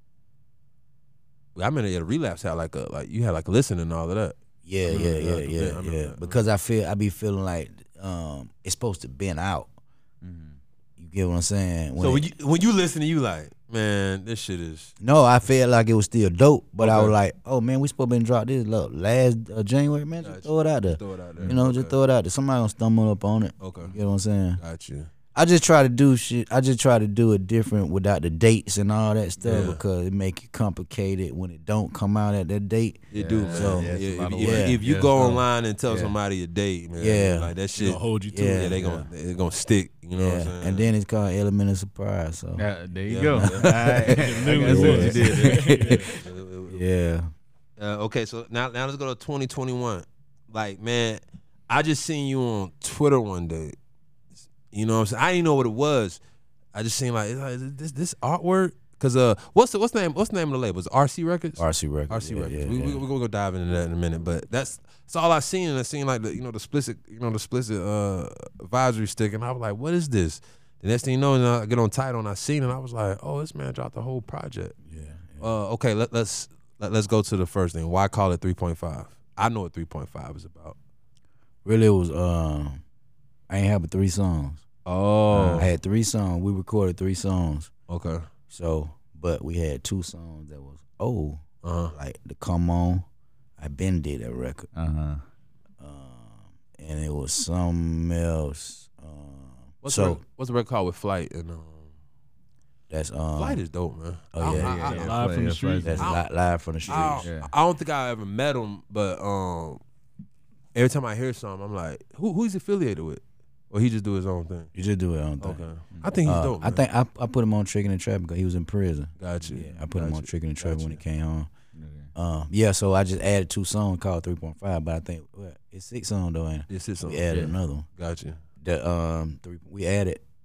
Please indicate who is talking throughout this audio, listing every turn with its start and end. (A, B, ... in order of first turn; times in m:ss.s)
0:01.6-0:04.4 A
0:04.6-0:09.7 B
0:04.9-0:06.4 A
0:10.2-0:10.6 C
0:11.0-0:12.3 B
0:12.0-0:14.9 A
0:15.0-0:24.6 B
0:16.8-0:17.2 A
0:20.2-0:22.0 A
0:23.6-0:24.0 A
0:24.6-0:25.1 A
0:25.3-0:34.8 B
0:29.4-0:29.8 A
0:33.1-0:38.0 A
0:33.1-0:36.2 C
0:37.0-0:37.5 B
0:37.8-0:38.7 D
0:38.3-0:38.8 B
0:38.6-0:40.9 A
0:38.8-0:39.1 C
0:40.2-0:42.7 B
0:42.6-0:46.0 C
0:43.1-0:43.7 A
0:43.3-0:47.3 B
0:44.1-0:46.1 D
0:44.8-0:45.3 A
0:46.1-0:46.8 A
0:47.8-0:53.8 A
0:54.7-0:56.2 A
0:56.7-1:14.8 A
1:01.6-1:03.0 B
1:14.9-1:15.5 B
1:15.4-1:20.8 A
1:21.6-1:22.8 B
1:23.5-1:24.6 B
1:24.9-1:25.7 A
1:25.3-1:25.6 C
1:25.5-1:27.7 B
1:27.9-1:28.2 A
1:28.5-1:33.0 B
1:31.6-1:31.9 A
1:33.6-1:34.7 B
1:34.7-1:35.2 C
1:35.8-1:40.2 B
1:39.8-1:41.9 A
1:42.9-1:43.6 B
1:43.4-1:45.2 A
1:44.3-1:45.1 B
1:44.4-1:46.1 C
1:44.8-1:46.0 D
1:45.8-1:47.3 B
1:46.0-1:46.2 A
1:46.9-1:49.8 A
1:47.2-1:47.5 C
1:50.8-1:54.7 A
1:54.8-1:55.6 B
1:55.4-1:56.8 A
1:56.2-2:01.5 B
1:59.2-2:01.0 A
2:01.8-2:02.1 C
2:02.2-2:07.9 B
2:06.7-2:07.3 A
2:08.0-2:08.4 A
2:08.6-2:10.2 B